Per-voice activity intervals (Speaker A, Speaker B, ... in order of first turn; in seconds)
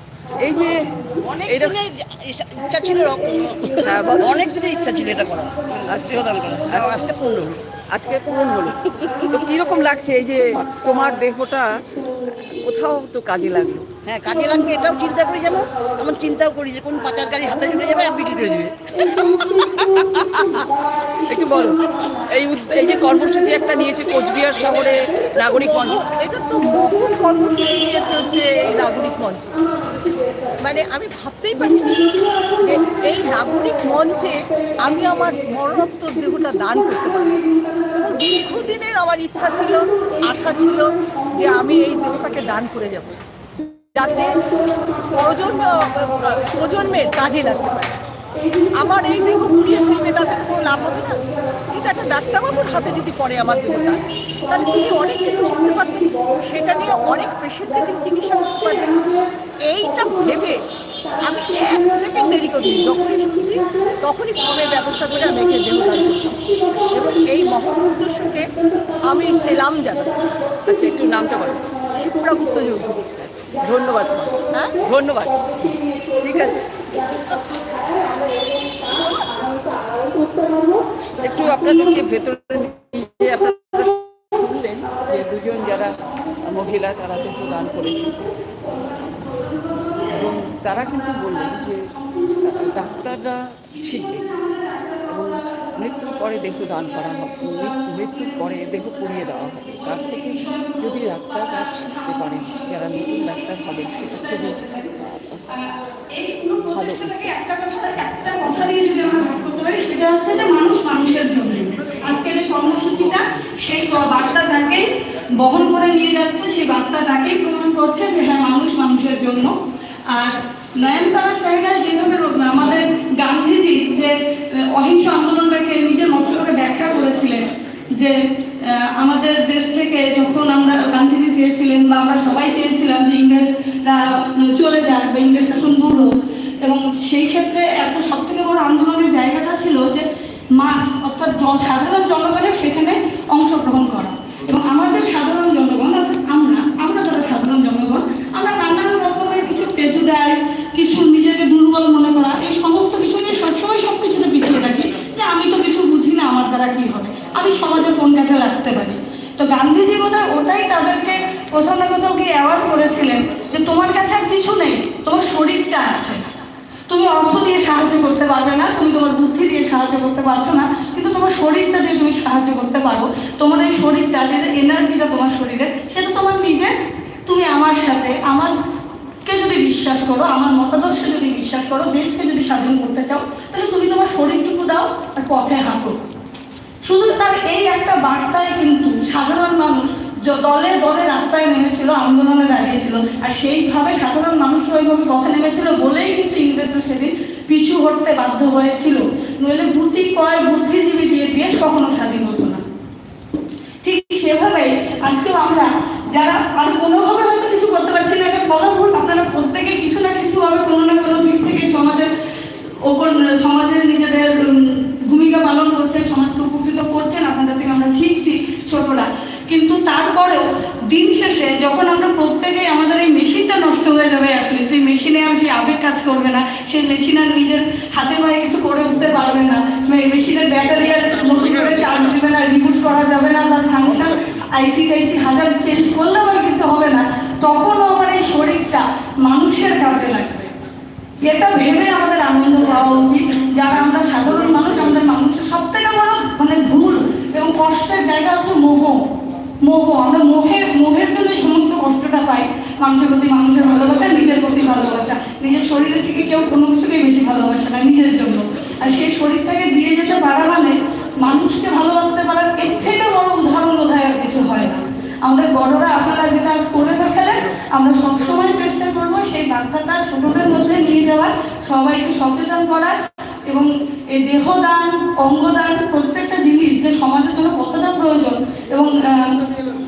Speaker A: 0.4-0.8, 1.4-1.8, 3.9-4.4, 5.9-7.0, 7.9-11.7, 12.2-13.8, 19.9-20.6, 21.3-26.0, 70.7-71.6, 73.6-75.4, 76.2-76.6, 81.2-88.2, 90.0-91.9, 92.4-94.3, 95.1-104.6, 106.7-107.3
Speaker B: 1.2-7.6, 14.0-19.4
Speaker C: 25.4-29.6, 30.6-32.1, 32.6-44.4, 45.1-47.9, 48.7-59.1, 59.6-60.6, 61.2-66.4, 66.9-70.4, 71.9-73.2, 74.4-74.7, 77.0-77.6
Speaker D: 100.3-100.7, 104.4-104.9, 105.6-119.6, 120.1-166.3, 166.9-176.7, 177.2-178.5, 179.2-186.0, 186.8-202.6, 203.8-212.1, 212.8-240.5, 241.2-249.0, 249.6-272.9, 273.5-279.4